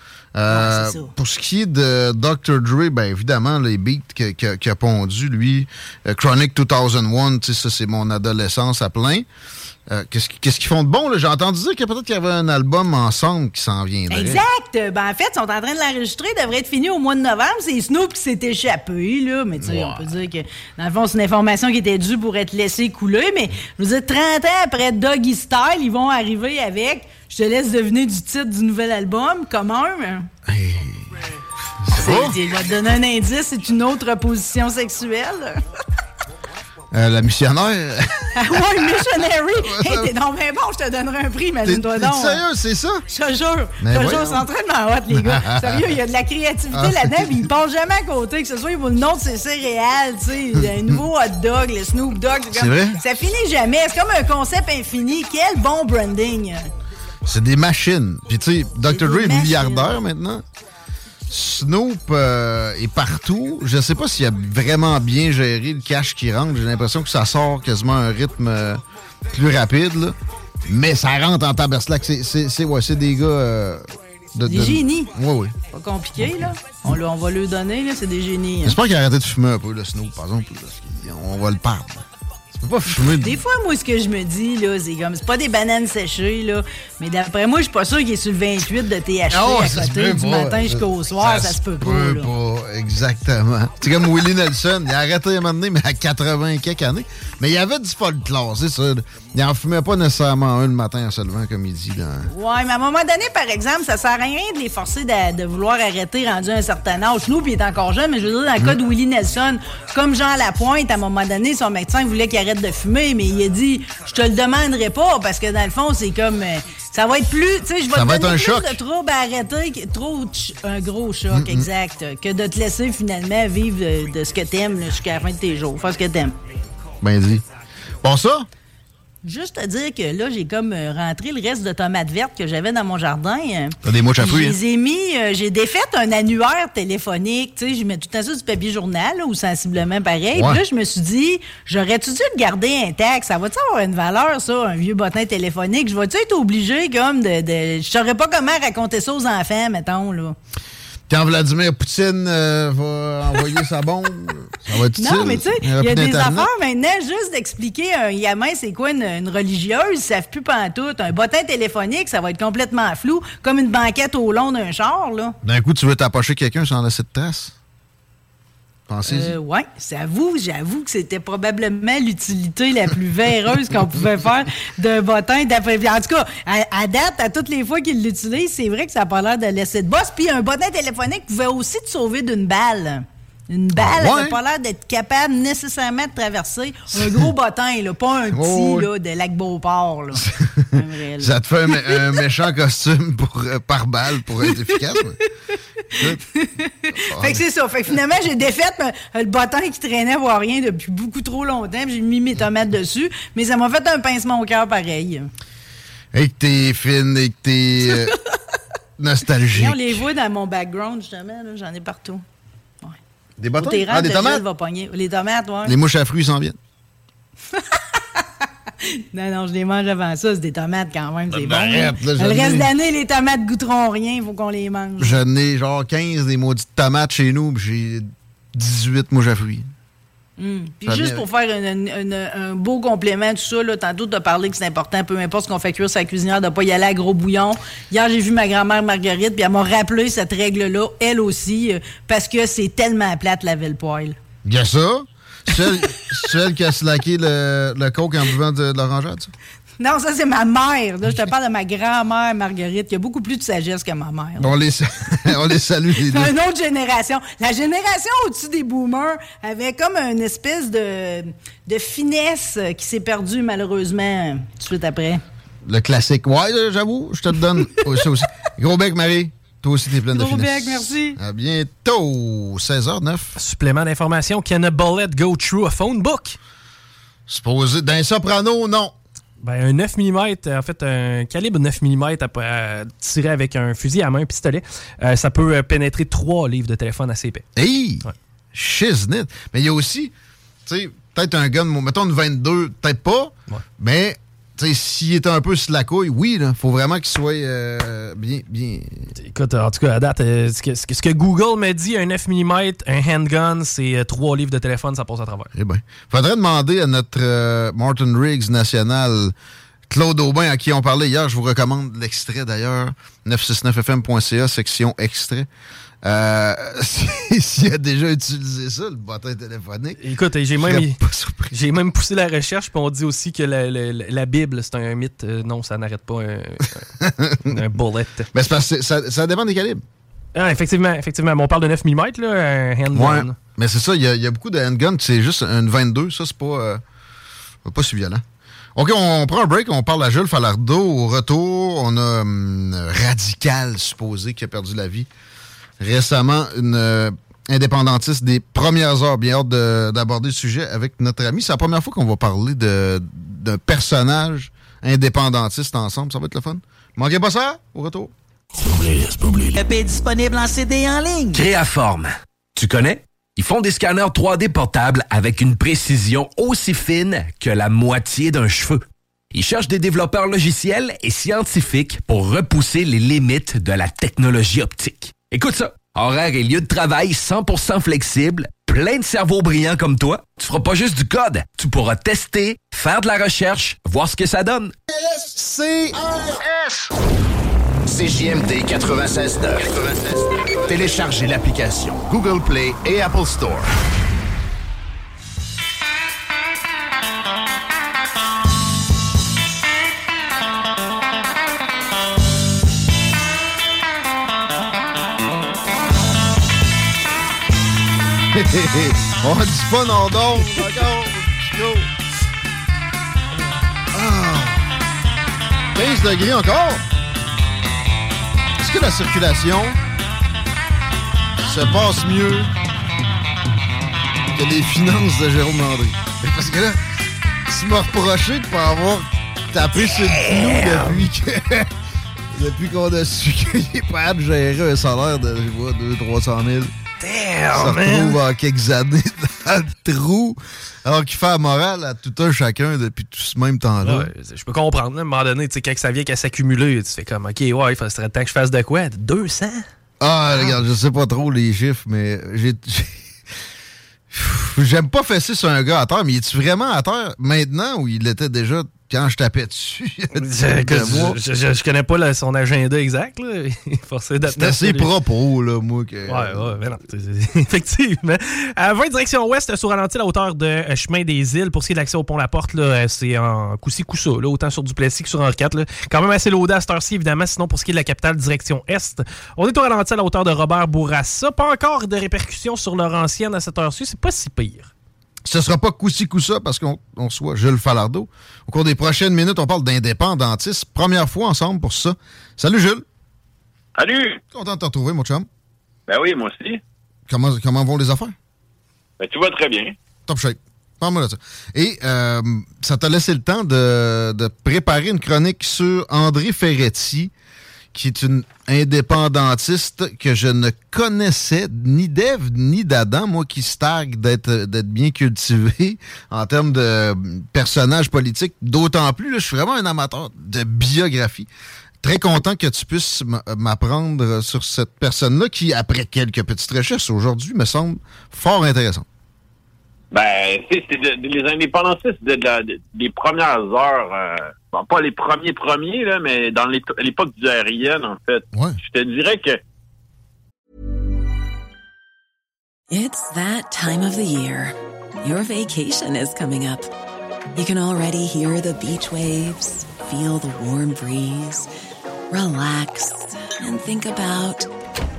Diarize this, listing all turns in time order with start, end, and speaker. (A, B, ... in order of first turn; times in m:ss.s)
0:00.3-0:09.2 A
0:00.5-0:01.1 B
0:09.9-0:14.4 A
0:14.1-0:30.3 B
0:19.6-0:20.1 A
0:30.4-0:31.3 A
0:31.8-0:32.4 A
0:31.9-0:35.6 B
0:36.9-0:40.1 A
0:38.4-0:42.4 B
0:41.6-0:43.0 A
0:43.1-0:56.7 B
0:43.8-0:44.5 A
0:45.1-0:46.0 A
0:46.7-0:47.5 A
0:50.6-0:51.0 A
0:52.5-0:53.0 A
0:57.2-1:00.4 A
0:58.8-1:00.0 B
1:01.3-1:15.5 A
1:14.4-1:18.8 B
1:16.2-1:17.0 A
1:18.6-1:22.0 A
1:22.6-1:23.4 A
1:23.0-1:32.3 B
1:29.3-1:42.3 A
1:42.3-2:06.4 B
1:57.9-1:58.8 A
2:01.3-2:01.7 A
2:07.0-2:07.4 A
2:08.0-2:08.5 A
2:09.2-2:30.4 B
2:13.8-2:14.6 A
2:20.3-2:20.6 A
2:31.1-2:36.5 A
2:35.0-2:45.4 B
2:45.4-2:47.5 A
2:48.9-2:49.4 A
2:49.0-3:12.1 B
3:03.7-3:04.4 A
3:06.9-3:07.3 A
3:08.3-3:08.9 A
3:10.1-3:15.2 A
3:15.9-3:16.2 A
3:16.0-3:25.3 B
3:17.1-3:17.4 A
3:26.1-3:28.2 A
3:29.0-3:30.0 A
3:29.5-3:32.2 B
3:33.4-3:34.4 A
3:33.6-3:35.7 B
3:35.6-3:36.6 A
3:37.5-3:38.2 B
3:38.8-3:45.2 B
3:41.3-3:42.7 A
3:45.0-3:49.7 A
3:50.4-4:04.2 B
3:50.8-3:51.2 A
4:04.4-4:09.3 A
4:09.8-4:14.5 B
4:14.4-4:16.3 A
4:16.0-4:25.2 B
4:25.6-4:33.4 A
4:30.1-4:31.2 B
4:33.4-4:36.4 C
4:37.3-4:38.9 A
4:39.4-4:47.4 C
4:47.6-4:50.1 A
4:50.6-4:59.1 A
4:59.2-5:05.5 C
5:05.5-5:09.3 A
5:09.9-5:15.5 A
5:16.0-5:20.0 A
5:20.0-5:21.0 C
5:20.6-5:21.6 A
5:21.5-5:26.8 C
5:27.0-5:27.6 A
5:27.4-5:28.3 C
5:28.3-5:29.8 A
5:30.3-5:33.4 C
5:32.9-5:36.8 A
5:37.6-5:38.2 A
5:38.7-5:45.1 A
5:45.8-5:58.1 A
5:58.7-5:59.2 D
5:59.2-6:01.5 E
6:01.5-6:02.0 D
6:02.6-6:08.8 D
6:09.4-6:24.7 D
6:48.3-6:51.9 A
6:53.9-6:54.7 A
6:55.7-6:56.8 A
6:58.6-6:59.8 A
7:01.4-7:02.5 A
7:04.3-7:06.8 A
7:07.5-7:11.7 A
7:09.9-7:11.0 C
7:12.3-7:16.7 A
7:17.0-7:18.2 C
7:17.5-7:24.1 A
7:23.8-7:29.6 C
7:30.0-7:33.0 A
7:34.1-7:41.2 A
7:40.1-7:44.9 C
7:44.2-7:46.5 A
7:46.1-8:04.7 C
8:05.2-8:12.8 A
8:13.8-8:14.2 F
8:14.3-8:15.3 A
8:15.9-8:16.6 F
8:17.1-8:18.1 A
8:19.0-8:19.7 F
8:20.1-8:27.1 A
8:27.7-8:41.3 A
8:41.8-8:48.8 A
8:49.9-8:59.4 F
8:58.3-8:58.6 A
9:02.7-9:06.7 G
9:07.3-9:11.5 G
9:12.1-9:14.5 G